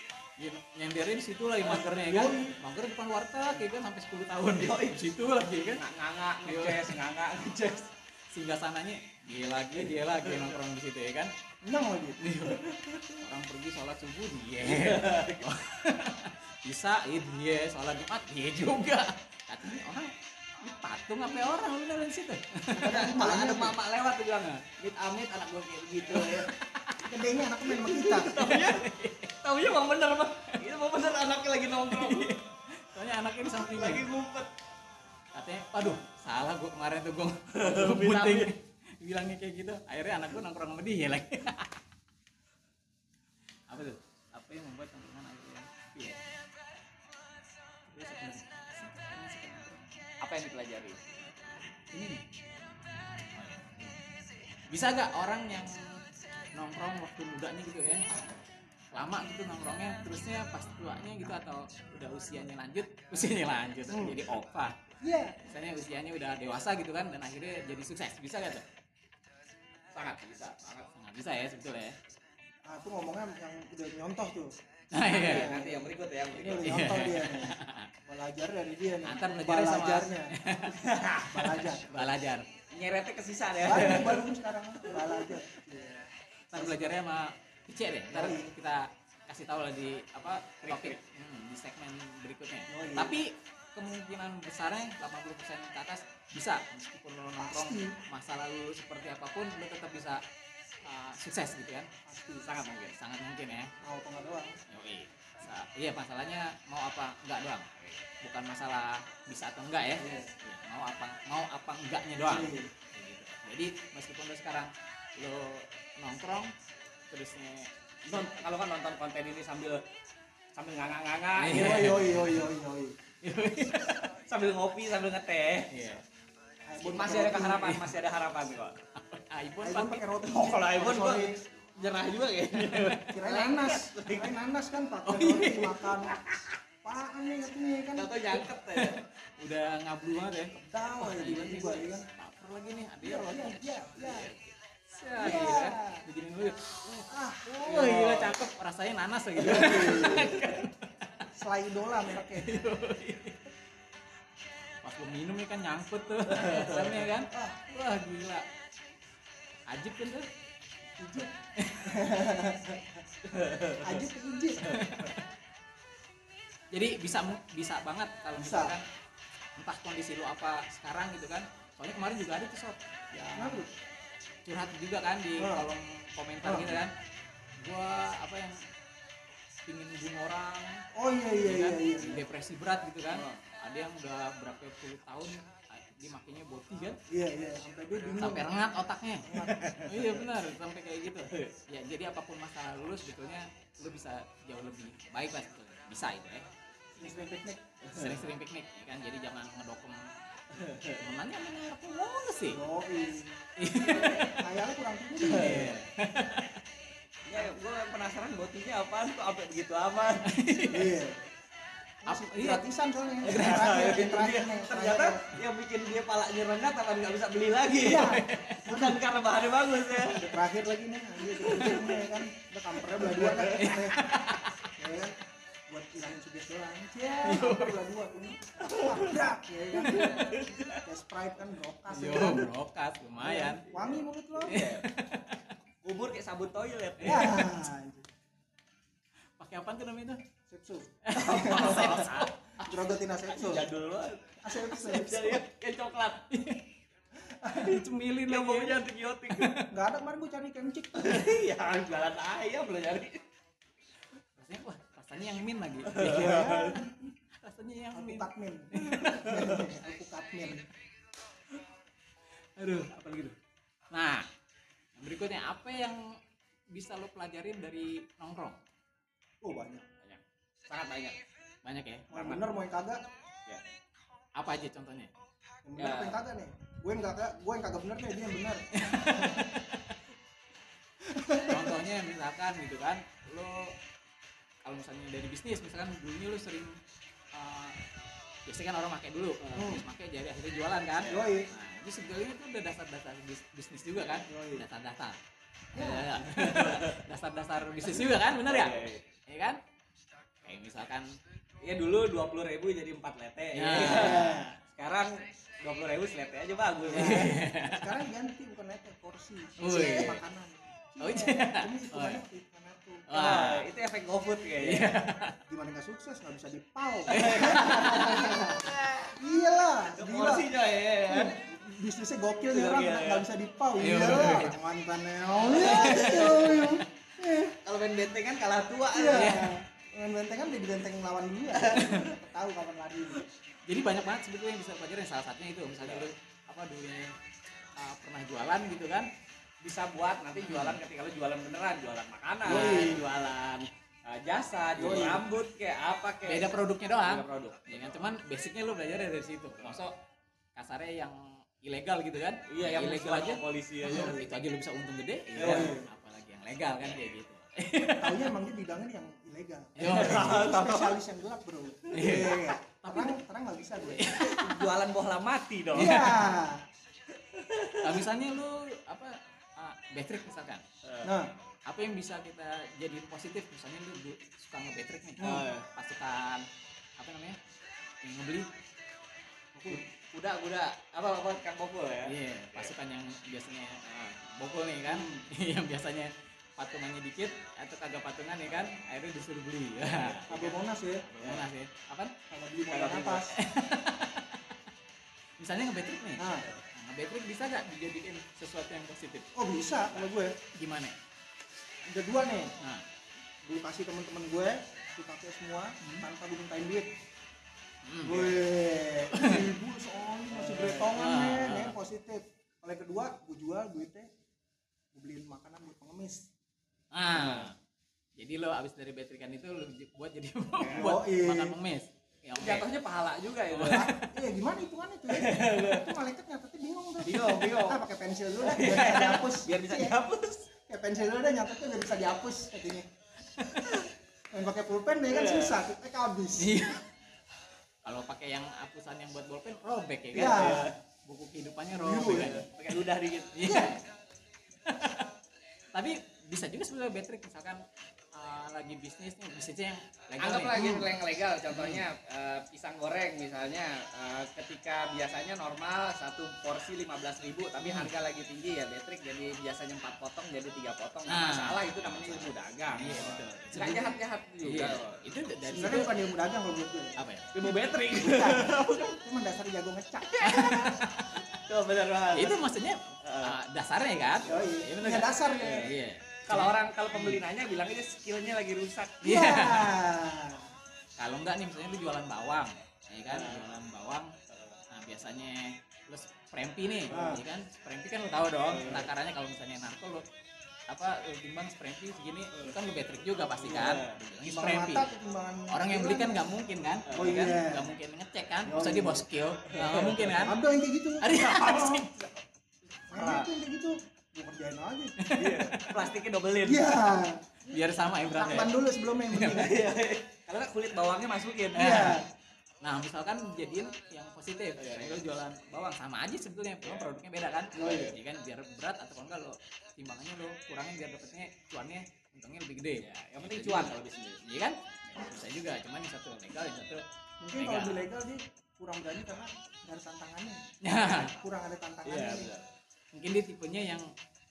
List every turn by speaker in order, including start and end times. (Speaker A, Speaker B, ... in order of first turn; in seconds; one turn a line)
Speaker A: 0.4-5.8
Speaker B: 1.9-2.5
Speaker C: 4.6-5.0
Speaker C: 5.8-7.9
Speaker A: 6.5-7.0
Speaker A: 8.3-11.3
Speaker C: 9.8-10.5
Speaker B: 11.6-12.3
Speaker A: 12.2-23.1
Speaker C: 14.6-15.4
Speaker B: 22.7-23.8
Speaker C: 22.8-26.5
Speaker A: 26.1-27.0
Speaker B: 27.0-28.3
Speaker C: 27.8-28.9
Speaker A: 28.4-29.3
Speaker C: 29.4-32.3
Speaker A: 31.9-34.0
Speaker C: 33.4-34.5
Speaker A: 35.3-41.7
Speaker C: 37.6-38.5
Speaker A: 43.7-46.2
Speaker A: 47.9-49.9
Speaker C: 50.2-51.0
Speaker A: 51.9-52.2
Speaker A: 53.3-54.0
Speaker A: 54.7-56.0
Speaker A: 56.5-58.1
Speaker A: 58.9-64.8
Speaker B: 63.9-64.2
Speaker B: 65.0-65.4
Speaker A: 65.5-68.6
Speaker C: 69.9-70.9
Speaker A: 70.9-72.0
Speaker B: 72.7-74.5
Speaker A: 74.9-75.5
Speaker C: 75.0-76.8
Speaker B: 75.2-75.8
Speaker B: 76.3-80.3
Speaker A: 76.6-77.9
Speaker A: 79.0-80.8
Speaker C: 80.7-81.4
Speaker B: 81.3-82.1
Speaker A: 81.9-82.5
Speaker C: 82.7-84.2
Speaker B: 83.6-87.0
Speaker C: 84.9-85.3
Speaker A: 86.5-100.2
Speaker B: 88.1-88.5
Speaker C: 90.6-91.0
Speaker B: 92.7-93.2
Speaker B: 97.4-98.0
Speaker A: 100.8-101.9
Speaker B: 102.1-102.5
Speaker C: 102.4-103.0
Speaker A: 103.0-103.7
Speaker B: 103.8-104.6
Speaker A: 104.7-107.7
Speaker A: 108.2-116.5
Speaker B: 112.3-112.7
Speaker A: 117.1-117.7
Speaker C: 118.1-119.8
Speaker C: 120.5-121.9
Speaker A: 121.4-122.5
Speaker B: 121.5-123.0
Speaker A: 123.2-124.1
Speaker C: 124.3-125.7
Speaker A: 125.7-126.0
Speaker B: 126.7-127.8
Speaker C: 126.8-128.8
Speaker A: 127.6-127.9
Speaker A: 129.0-130.0
Speaker B: 129.6-131.4
Speaker C: 130.3-134.3
Speaker A: 132.7-133.0
Speaker B: 133.1-136.2
Speaker A: 135.1-136.0
Speaker B: 136.8-138.2
Speaker C: 137.9-139.0
Speaker A: 138.3-150.9
Speaker B: 140.6-142.1
Speaker B: 143.0-144.3
Speaker B: 145.2-146.0
Speaker B: 147.1-148.2
Speaker B: 149.4-150.4
Speaker B: 151.3-152.6
Speaker A: 152.2-153.5
Speaker A: 154.8-158.4
Speaker C: 156.4-157.0
Speaker B: 157.3-157.6
Speaker A: 159.7-160.3
Speaker B: 161.0-161.3
Speaker A: 161.6-162.0
Speaker B: 161.8-163.0
Speaker C: 163.2-164.0
Speaker B: 163.8-164.7
Speaker C: 164.6-164.9
Speaker A: 164.7-165.2
Speaker A: 166.7-168.8
Speaker B: 168.4-168.8
Speaker A: 169.6-173.7
Speaker B: 173.3-173.7
Speaker A: 174.4-176.9
Speaker B: 175.4-175.7
Speaker B: 176.4-176.8
Speaker A: 177.6-178.6
Speaker A: 179.7-180.8
Speaker B: 180.9-182.2
Speaker A: 181.4-187.0
Speaker C: 183.1-183.4
Speaker B: 187.1-188.5
Speaker A: 188.2-196.5
Speaker B: 189.2-189.7
Speaker C: 189.6-190.1
Speaker B: 197.0-197.7
Speaker C: 197.9-198.1
Speaker A: 197.9-200.1
Speaker C: 200.5-201.0
Speaker A: 201.0-202.6
Speaker B: 202.5-203.5
Speaker A: 203.6-204.4
Speaker B: 204.1-205.8
Speaker A: 205.2-206.6
Speaker C: 205.3-205.7
Speaker C: 207.3-210.4
Speaker A: 210.3-210.9
Speaker B: 210.7-211.2
Speaker B: 212.1-215.3
Speaker A: 212.1-212.6
Speaker C: 213.2-220.4
Speaker A: 213.3-213.8
Speaker B: 217.8-219.0
Speaker A: 218.0-218.6
Speaker B: 220.2-224.1
Speaker C: 221.3-222.0
Speaker A: 223.4-224.5
Speaker B: 224.8-225.2
Speaker B: 225.7-232.5
Speaker A: 227.2-227.8
Speaker C: 228.7-229.0
Speaker A: 231.9-233.6
Speaker B: 233.2-234.6
Speaker C: 233.3-234.8
Speaker A: 234.5-235.4
Speaker C: 235.8-237.4
Speaker B: 237.0-238.1
Speaker A: 237.0-237.3
Speaker A: 239.4-240.2
Speaker B: 240.5-242.0
Speaker A: 241.0-242.8
Speaker C: 241.1-242.3
Speaker B: 242.6-243.7
Speaker C: 243.3-246.3
Speaker B: 244.4-245.4
Speaker A: 246.3-246.6
Speaker B: 247.2-247.8
Speaker A: 247.5-248.8
Speaker C: 248.3-249.5
Speaker A: 249.4-249.7
Speaker B: 249.7-251.2
Speaker C: 251.0-253.2
Speaker A: 254.4-256.4
Speaker C: 255.9-256.8
Speaker B: 256.0-257.1
Speaker A: 257.3-259.5
Speaker B: 257.9-260.7
Speaker A: 262.6-263.4
Speaker A: 263.9-264.3
Speaker A: 265.0-266.0
Speaker A: 266.7-268.6
Speaker B: 269.4-269.9
Speaker C: 270.0-271.2
Speaker A: 271.6-272.1
Speaker B: 272.1-273.0
Speaker C: 272.1-272.4
Speaker A: 274.4-275.1
Speaker B: 275.7-279.4
Speaker C: 275.8-276.2
Speaker A: 278.8-279.8
Speaker B: 281.1-281.7
Speaker A: 281.4-283.7
Speaker A: 284.6-286.8
Speaker A: 287.3-287.8
Speaker A: 288.5-295.2
Speaker B: 289.6-289.8
Speaker B: 291.1-291.5
Speaker B: 294.3-294.7
Speaker B: 295.7-296.4
Speaker A: 295.8-299.6
Speaker C: 296.4-297.0
Speaker C: 298.0-299.0
Speaker A: 300.4-301.1
Speaker C: 301.6-307.3
Speaker A: 303.5-304.4
Speaker B: 303.7-304.6
Speaker B: 306.9-313.1
Speaker A: 306.9-307.9
Speaker A: 309.6-310.2
Speaker A: 311.0-312.2
Speaker A: 313.1-313.7
Speaker C: 313.1-314.9
Speaker A: 314.6-315.4
Speaker B: 315.5-318.7
Speaker A: 317.1-318.1
Speaker C: 317.1-319.2
Speaker B: 319.2-320.5
Speaker C: 319.9-321.4
Speaker B: 321.1-327.6
Speaker C: 322.5-323.2
Speaker A: 323.8-324.6
Speaker C: 325.4-326.8
Speaker A: 325.5-326.8
Speaker C: 327.6-329.4
Speaker B: 328.9-333.3
Speaker A: 329.1-329.5
Speaker C: 331.6-332.0
Speaker A: 333.7-337.1
Speaker C: 335.8-336.1
Speaker A: 337.8-339.1
Speaker C: 339.6-346.5
Speaker A: 340.4-340.8
Speaker B: 342.4-343.1
Speaker A: 342.5-342.9
Speaker B: 344.8-345.3
Speaker A: 344.8-345.1
Speaker A: 346.3-349.9
Speaker C: 347.0-348.0
Speaker A: 350.6-358.3
Speaker C: 352.5-354.2
Speaker B: 353.9-354.3
Speaker C: 355.4-355.8
Speaker B: 355.4-355.9
Speaker B: 357.9-364.2
Speaker A: 359.8-360.5
Speaker C: 359.8-361.0
Speaker A: 361.9-363.2
Speaker C: 361.9-362.4
Speaker A: 363.9-364.7
Speaker C: 364.1-366.1
Speaker B: 365.7-366.6
Speaker A: 365.8-366.3
Speaker C: 367.3-368.1
Speaker A: 367.8-370.6
Speaker C: 370.8-371.1
Speaker B: 371.0-371.3
Speaker A: 371.7-376.4
Speaker B: 375.2-375.5
Speaker C: 375.2-375.6
Speaker A: 377.0-377.4
Speaker A: 378.0-378.5
Speaker B: 379.6-379.8
Speaker C: 379.7-382.7
Speaker A: 382.1-392.1
Speaker C: 383.9-384.2
Speaker B: 384.9-385.2
Speaker B: 390.3-391.1
Speaker C: 391.2-391.5
Speaker B: 392.3-393.3
Speaker C: 392.7-393.3
Speaker A: 393.4-394.4
Speaker A: 395.4-399.3
Speaker B: 396.2-396.5
Speaker B: 399.3-400.4
Speaker A: 400.6-401.0
Speaker B: 401.9-402.5
Speaker B: 403.4-406.9
Speaker A: 407.8-408.3
Speaker B: 408.1-414.1
Speaker A: 409.1-409.5
Speaker C: 410.3-410.9
Speaker A: 410.8-411.8
Speaker B: 414.9-416.3
Speaker A: 416.9-417.5
Speaker C: 417.1-417.5
Speaker A: 418.2-422.7
Speaker C: 420.6-420.8
Speaker B: 420.7-421.6
Speaker C: 422.4-423.9
Speaker A: 423.5-424.1
Speaker B: 423.7-430.0
Speaker C: 425.1-425.9
Speaker C: 427.0-427.8
Speaker C: 428.4-430.5
Speaker B: 430.7-432.9
Speaker A: 433.4-433.8
Speaker B: 434.3-436.6
Speaker C: 435.1-435.6
Speaker A: 436.4-436.8
Speaker A: 437.9-442.4
Speaker B: 440.1-440.7
Speaker C: 440.3-440.7
Speaker B: 441.7-442.4
Speaker C: 442.1-443.3
Speaker A: 443.3-443.8
Speaker B: 443.4-443.8
Speaker A: 444.7-445.1
Speaker A: 445.7-447.6
Speaker A: 448.1-450.9
Speaker C: 450.2-464.9
Speaker B: 450.5-450.9
Speaker A: 451.5-451.8
Speaker A: 457.6-457.9
Speaker A: 461.1-465.9
Speaker B: 465.5-467.0
Speaker A: 467.0-467.3
Speaker C: 467.3-468.9
Speaker B: 467.9-470.8
Speaker A: 470.2-471.2
Speaker C: 470.3-470.7
Speaker C: 471.3-472.4
Speaker A: 472.1-475.1
Speaker C: 473.0-473.3
Speaker B: 474.2-475.7
Speaker C: 475.4-475.7
Speaker A: 475.6-477.2
Speaker C: 476.3-479.0
Speaker A: 479.0-479.7
Speaker B: 479.0-480.5
Speaker A: 481.0-484.1
Speaker C: 483.1-483.5
Speaker C: 484.3-484.6
Speaker A: 484.7-490.0
Speaker B: 486.9-487.2
Speaker C: 488.5-488.9
Speaker A: 490.7-494.9
Speaker C: 493.5-493.9
Speaker B: 494.3-496.3
Speaker A: 495.5-500.4
Speaker C: 496.9-497.2
Speaker B: 496.9-497.7
Speaker B: 498.4-499.1
Speaker C: 499.5-500.0
Speaker B: 500.1-501.9
Speaker A: 501.0-501.9
Speaker C: 501.2-501.7
Speaker B: 502.9-505.5
Speaker C: 502.9-503.3
Speaker A: 505.0-505.9
Speaker C: 505.2-506.7
Speaker B: 506.4-507.2
Speaker A: 507.5-508.5
Speaker B: 508.1-509.6
Speaker A: 509.1-509.5
Speaker C: 509.3-511.9
Speaker A: 511.6-512.0
Speaker B: 511.6-512.0
Speaker A: 512.6-526.8
Speaker C: 514.6-515.0
Speaker B: 517.5-518.0
Speaker C: 517.6-517.9
Speaker C: 522.8-524.2
Speaker B: 527.2-532.3
Speaker A: 527.4-527.9
Speaker A: 530.6-531.1
Speaker C: 531.9-532.5
Speaker A: 532.9-533.9